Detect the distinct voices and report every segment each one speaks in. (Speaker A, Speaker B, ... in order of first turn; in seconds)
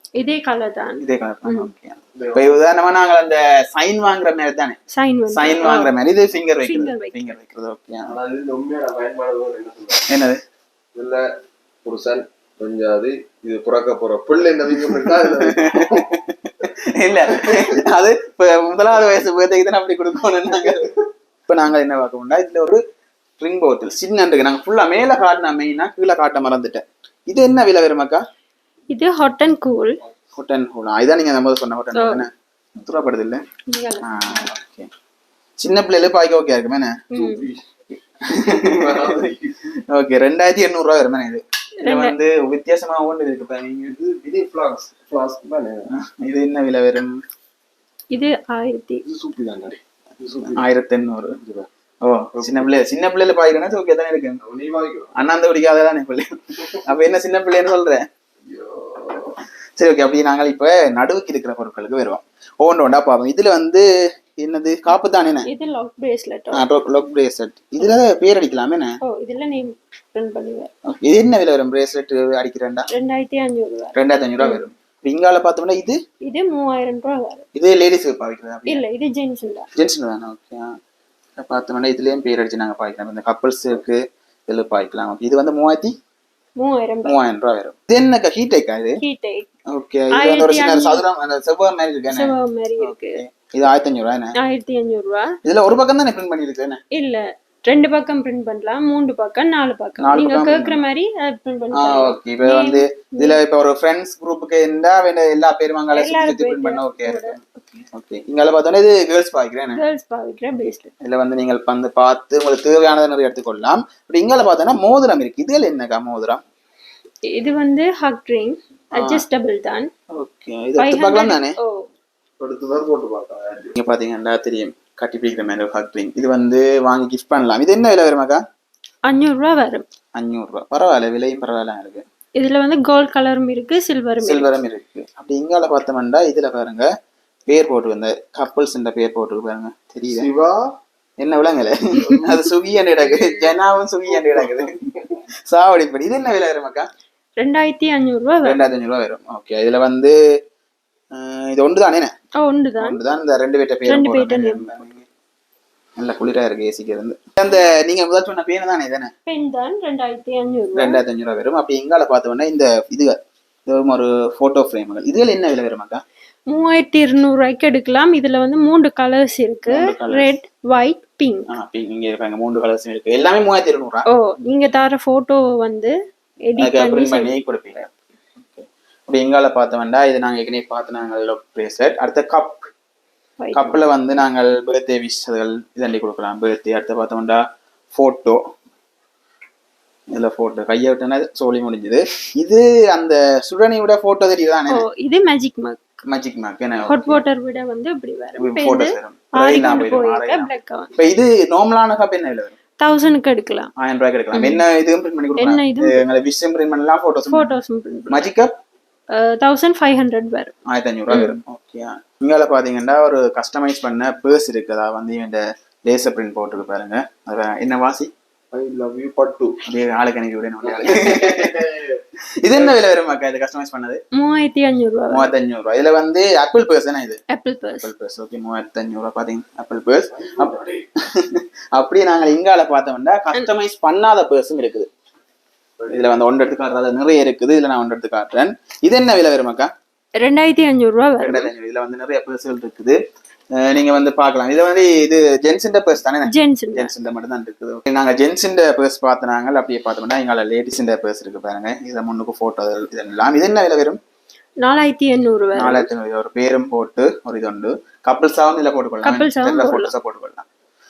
Speaker A: 0.1-1.7, 4.9-6.0, 6.7-7.3, 28.9-30.0, 31.9-32.2, 33.7-34.5, 37.1-37.5, 41.8-42.1, 48.1-49.0, 65.5-66.7, 69.0-70.7, 72.9-74.7, 76.2-77.5, 78.7-79.7, 86.6-87.2, 89.0-89.5, 90.1-91.0, 92.1-93.2, 94.4-95.4, 96.9-103.4, 105.9-107.5, 109.7-110.9, 117.3-119.9, 120.8-121.9, 129.1-129.8, 132.4-134.6, 147.4-148.6, 152.4-153.0, 153.9-154.7, 159.3-161.0, 166.5-171.5, 174.1-175.9, 176.5-177.3, 183.4-183.8, 194.7-196.0, 196.9-200.9, 202.8-203.7, 204.3-204.6, 205.4-206.0, 207.3-208.3, 209.1-210.5, 211.1-211.4, 224.1-225.3, 227.3-227.9, 240.2-241.5, 246.3-246.9, 254.6-255.9, 259.0-259.9
Speaker B: 1.0-4.8, 5.3-8.1, 10.1-10.4, 15.1-20.9, 21.5-22.8, 23.4-28.2, 30.4-33.4, 34.0-34.9, 35.6-37.0, 38.2-39.3, 39.9-44.0, 45.9-47.2, 50.5-51.4, 52.0-54.4, 55.1-58.1, 59.8-65.5, 66.5-69.0, 70.9-72.9, 74.0-76.0, 77.5-78.8, 79.8-80.7, 81.4-86.0, 87.0-89.0, 89.7-94.4, 95.4-96.8, 100.0-100.8, 101.7-107.4, 107.9-109.8, 111.0-116.4, 119.0-119.2, 120.1-121.6, 123.8-128.4, 130.2-132.1, 134.2-136.9, 137.5-140.3, 141.2-144.8, 145.5-146.9, 148.4-150.2, 151.1-152.1, 152.8-155.1, 156.0-159.1, 160.8-166.0, 169.7-170.3, 171.5-174.1, 176.6-182.7, 183.6-188.4, 190.1-194.8, 196.1-197.2, 198.4-202.6, 203.8-207.6, 208.1-208.5, 210.7-218.1, 219.7-221.6, 222.4-224.0, 225.1-227.2, 227.7-234.9, 235.9-239.7, 241.2-243.0, 243.6-254.0, 255.6-260.5
Speaker C: 2.1-2.6, 8.1-10.1, 10.9-11.3, 11.8-16.0, 37.1-37.6, 38.3-39.6, 43.9-45.9, 49.0-50.6, 51.4-51.7, 52.4-52.7, 54.4-55.1, 58.5-59.4, 122.4-123.8, 140.1-140.8, 144.2-144.7, 218.5-219.6, 220.6-222.0, 222.5-222.8, 230.1-230.8